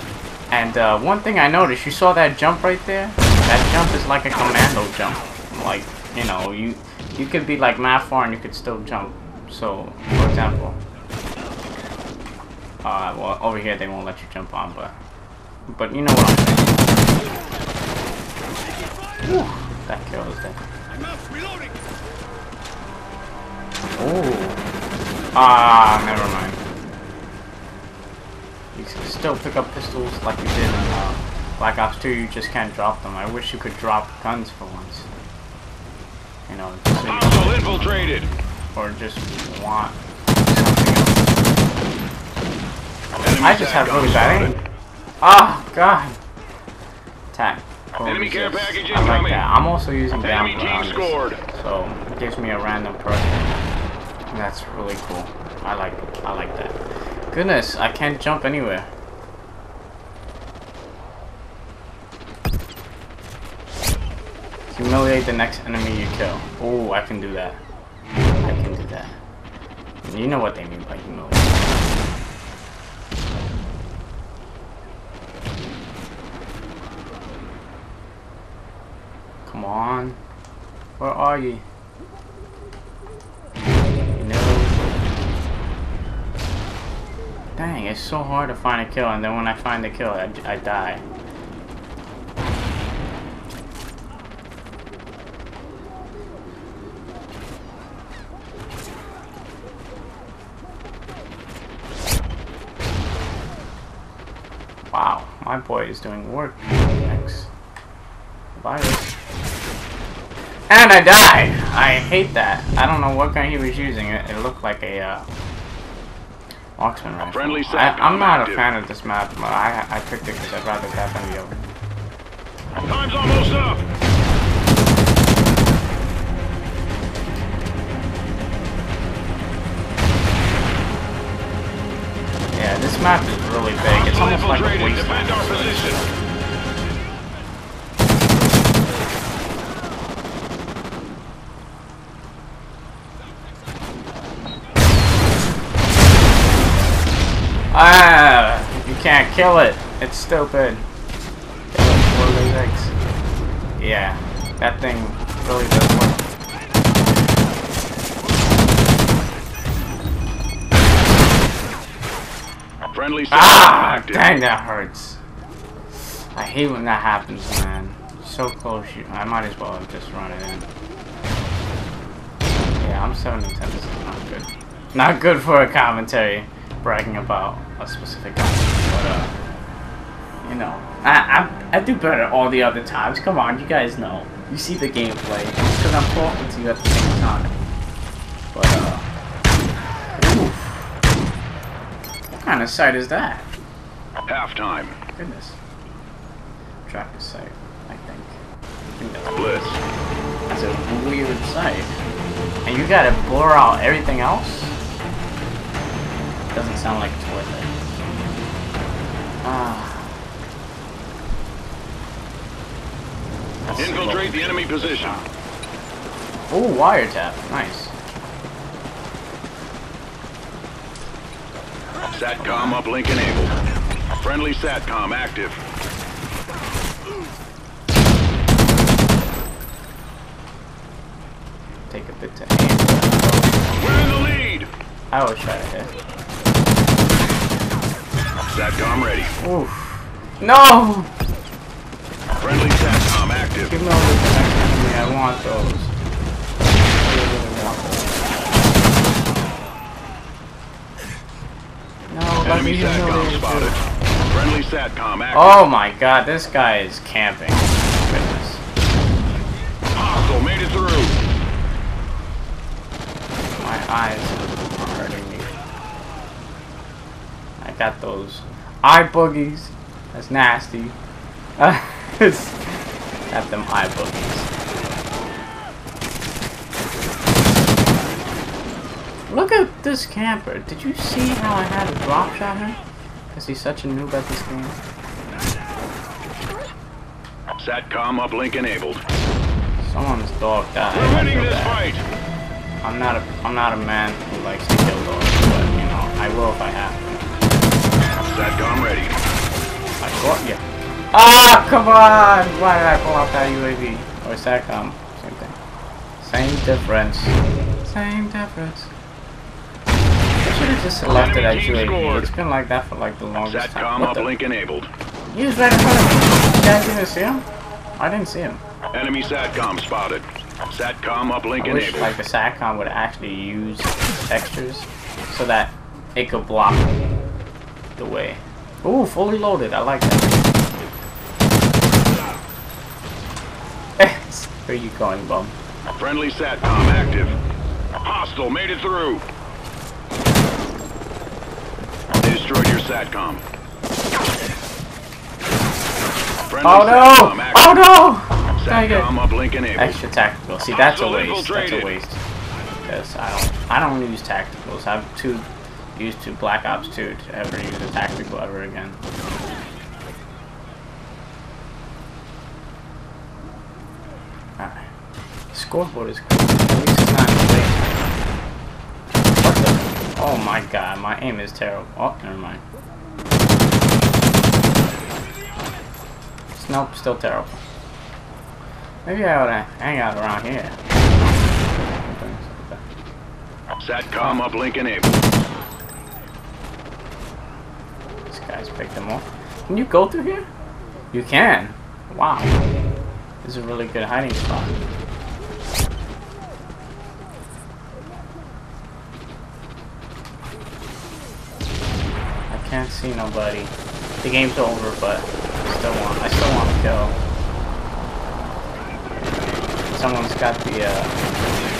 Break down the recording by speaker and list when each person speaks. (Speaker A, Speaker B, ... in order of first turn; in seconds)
Speaker A: 0.5-10.8, 12.8-15.0, 15.7-16.8, 19.2-20.6, 24.0-24.6, 25.4-26.6, 28.7-35.1, 36.5-41.5, 43.4-44.6, 45.2-46.2, 47.3-53.6, 54.3-56.8, 57.3-58.9, 64.7-67.6, 68.4-69.2, 70.0-71.8, 79.5-80.2, 81.0-81.6, 84.1-85.0, 87.6-91.0, 104.9-107.5, 108.5-109.1, 110.7-115.3, 116.8-121.8, 132.5-136.1, 147.7-150.8, 151.7-152.9, 153.8-156.3, 163.3-165.2, 166.3-170.7, 172.8-179.3, 180.4-187.5, 188.5-189.1, 190.1-190.9, 192.3-193.5, 195.1-195.6, 196.9-198.4, 199.0-199.7, 200.5-202.0, 202.7-204.8, 206.5-207.7, 209.4-210.1, 213.7-215.3, 216.5-217.9, 222.4-222.8, 231.9-233.7, 235.1-235.9, 239.4-241.1, 243.6-245.9, 247.0-248.3, 252.1-253.8, 255.3-258.6, 263.6-265.6, 267.6-271.0, 271.6-272.6, 273.3-274.5, 279.3-282.8, 283.3-284.8, 289.8-291.8, 292.8-297.3, 300.0-305.6, 306.2-308.9, 310.4-314.3, 315.3-317.4, 318.0-318.6, 321.6-326.9, 328.0-330.5, 334.0-335.6, 346.6-349.1, 349.8-352.2, 352.9-359.0, 364.6-364.9, 365.5-368.0, 369.4-372.6, 376.6-377.6, 379.1-380.8, 381.4-382.8, 388.3-390.5, 391.1-392.6, 393.4-394.9, 402.5-407.2, 409.9-411.2
Speaker B: 37.1-38.3, 43.2-44.5, 48.0-49.5, 50.2-51.4, 117.3-118.7, 122.9-123.8, 133.8-136.0, 162.9-164.3, 194.3-195.0, 199.3-199.8, 213.8-215.2, 222.1-223.5, 224.2-225.6, 233.8-234.7, 238.5-239.3, 242.4-243.7, 252.4-255.6, 259.9-261.2, 287.6-289.0, 290.9-292.0, 298.2-299.1, 311.1-312.3, 313.4-314.9, 318.9-322.1, 336.0-337.4, 338.0-339.2, 342.2-343.4, 346.5-347.8, 348.6-350.0, 350.7-352.0, 383.8-385.2